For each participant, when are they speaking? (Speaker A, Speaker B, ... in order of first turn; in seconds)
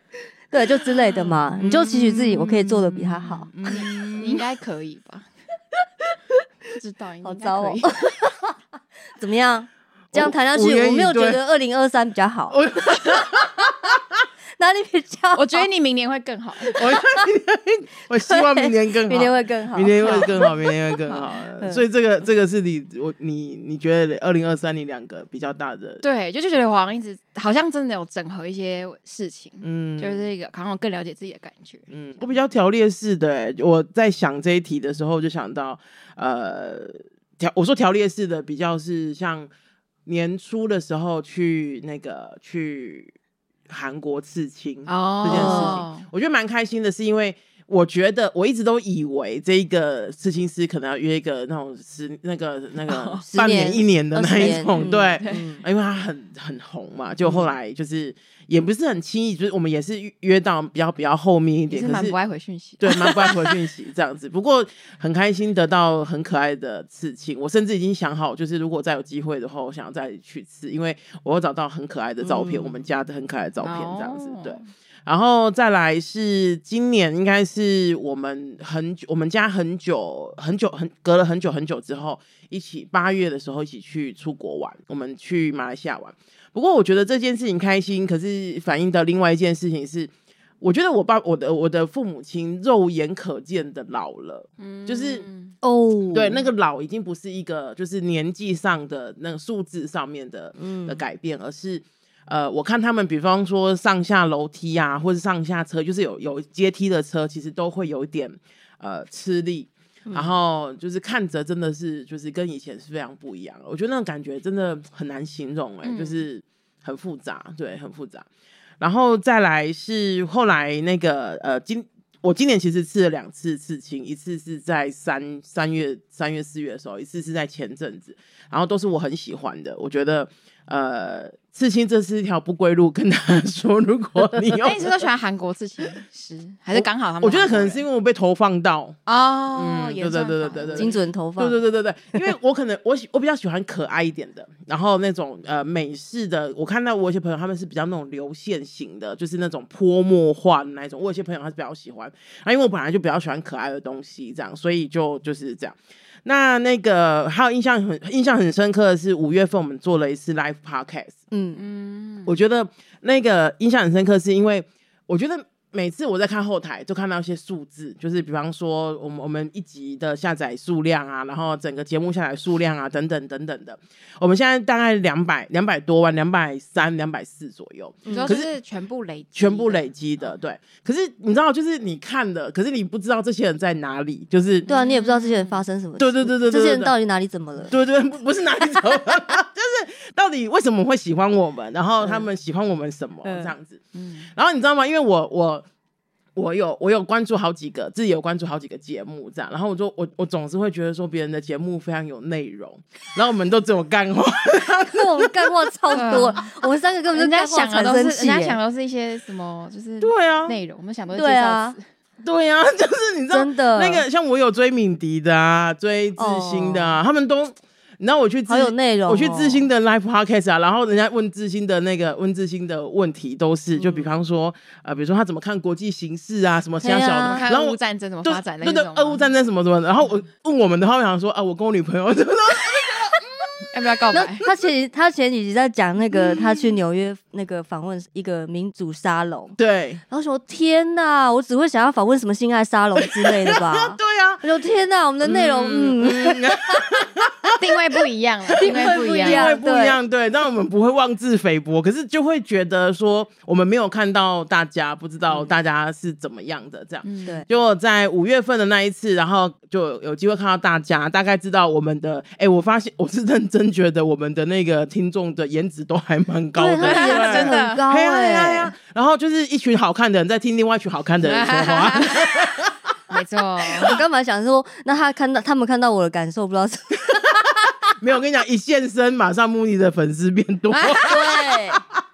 Speaker A: 0.5-3.5, 7.2-8.6, 9.2-12.6, 14.6-15.7, 18.1-21.0, 21.6-21.9, 45.2-45.9, 53.3-55.6, 95.6-96.5, 100.6-101.0, 110.1-110.4, 140.8-141.6, 161.3-161.6, 178.1-178.4, 184.7-187.7, 192.0-192.3, 193.2-193.6, 204.9-208.6, 211.1-211.8, 213.3-214.1, 216.2-217.0, 218.5-219.7, 223.8-224.1, 226.8-227.5, 234.1-239.6, 240.1-246.7, 248.6-250.0, 266.6-268.7, 273.8-277.5, 281.1-281.8
Speaker B: 1.6-4.4, 10.1-11.4, 12.5-14.2, 16.7-26.0, 29.6-30.3, 31.9-39.5, 40.1-43.1, 43.7-62.2, 62.8-95.2, 96.1-118.3, 118.8-135.0, 136.7-139.0, 139.5-161.2, 162.3-178.5, 179.3-184.7, 186.0-186.9, 187.7-193.8, 194.3-195.7, 196.4-206.2, 210.0-210.6, 212.2-233.4, 236.1-236.8, 239.6-240.0, 243.0-244.5, 245.2-247.6, 248.5-272.7, 277.9-281.3
Speaker C: 3.5-5.3, 6.7-7.9, 15.3-16.8, 20.0-20.5, 21.0-21.4, 26.0-32.3, 44.9-46.0, 52.9-53.3, 54.3-55.5, 61.7-63.4, 72.2-72.8, 73.6-74.7, 94.6-95.6, 115.8-116.2, 134.6-137.8, 139.1-141.0, 161.5-162.3, 178.1-180.3, 184.7-185.6, 193.9-194.3, 205.9-206.5, 207.1-211.8, 227.2-229.3, 233.7-234.5, 247.6-249.5, 257.0-257.4, 266.8-267.8, 271.2-272.3, 273.1-274.0, 280.7-281.8